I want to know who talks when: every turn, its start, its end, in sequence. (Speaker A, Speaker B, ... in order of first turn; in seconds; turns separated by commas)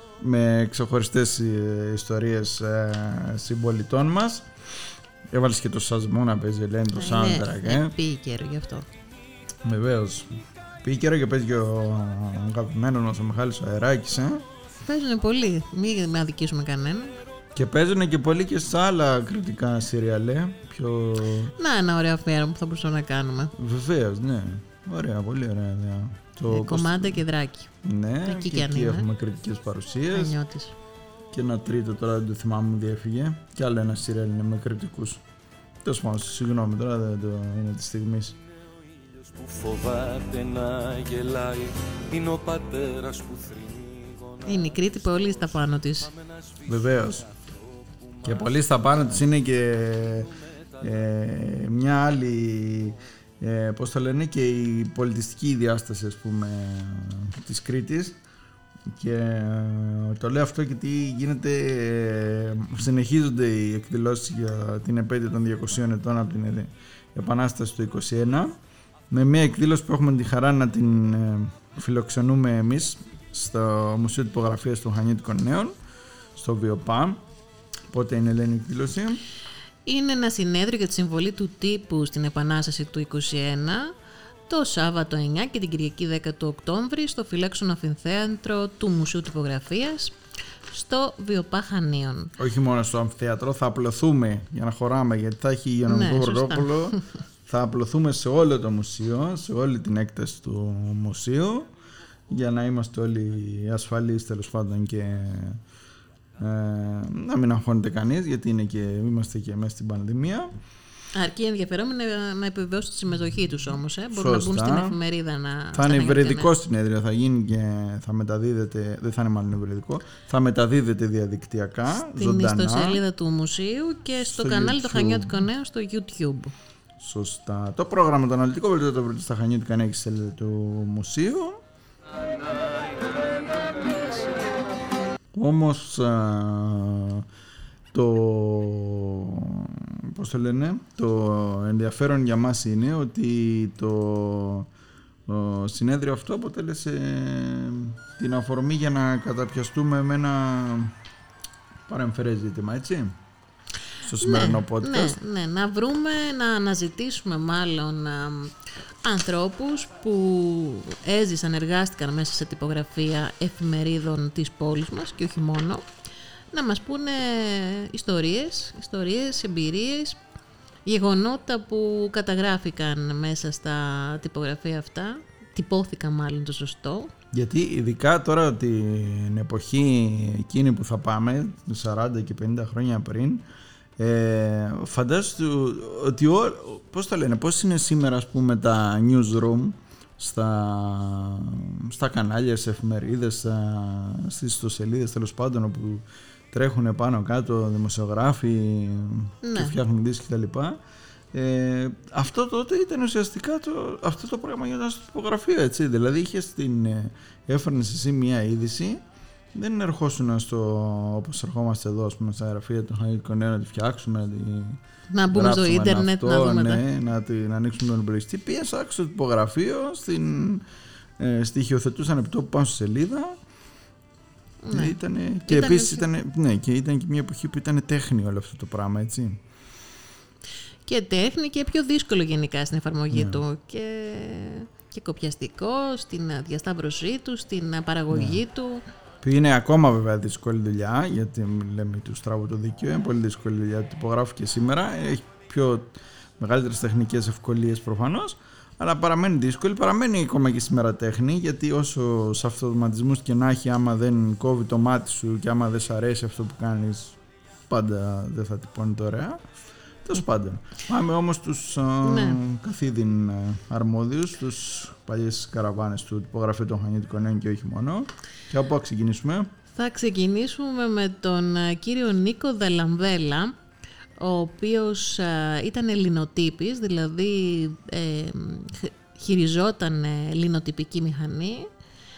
Speaker A: 0.2-4.5, Speaker A: 5.3-8.0, Speaker B: 6.9-8.9, Speaker A: 9.7-14.4, Speaker B: 14.8-17.2, Speaker A: 17.6-21.5, Speaker B: 21.6-23.5, Speaker A: 23.6-27.3, Speaker B: 26.5-27.7, Speaker A: 27.8-30.4, Speaker B: 28.2-29.1, Speaker B: 30.1-30.8, Speaker A: 31.3-35.2, Speaker A: 35.8-38.4, Speaker C: 39.1-44.9, Speaker B: 44.4-46.1, Speaker C: 46.4-48.5, Speaker A: 46.6-47.3, Speaker A: 48.2-58.2, Speaker A: 58.9-68.6, Speaker A: 69.1-75.7, Speaker A: 76.4-77.2, Speaker A: 77.9-79.2, Speaker B: 79.9-83.9, Speaker B: 84.5-90.2, Speaker B: 90.7-92.3, Speaker A: 92.4-101.7, Speaker B: 95.9-96.7, Speaker A: 102.3-105.6, Speaker A: 106.4-110.5, Speaker B: 111.2-116.5, Speaker A: 114.1-115.0, Speaker A: 115.7-123.0, Speaker B: 122.0-126.5, Speaker A: 124.2-125.4, Speaker A: 127.0-131.6, Speaker A: 135.3-137.2, Speaker A: 137.9-144.7, Speaker A: 145.3-150.9, Speaker A: 151.9-153.2, Speaker A: 154.0-155.2, Speaker B: 154.2-165.9, Speaker B: 166.5-170.2, Speaker B: 170.8-177.1, Speaker A: 177.3-183.4, Speaker A: 184.0-200.8, Speaker B: 199.4-199.8, Speaker A: 201.3-209.0, Speaker A: 209.6-220.7, Speaker B: 215.1-216.8, Speaker A: 221.2-223.4, Speaker B: 224.6-226.1, Speaker A: 224.7-229.4, Speaker B: 230.9-238.8, Speaker A: 233.1-233.4, Speaker A: 238.1-238.4, Speaker A: 239.2-259.4, Speaker A: 260.0-269.5, Speaker B: 262.0-262.4, Speaker B: 269.7-273.6, Speaker B: 274.2-281.7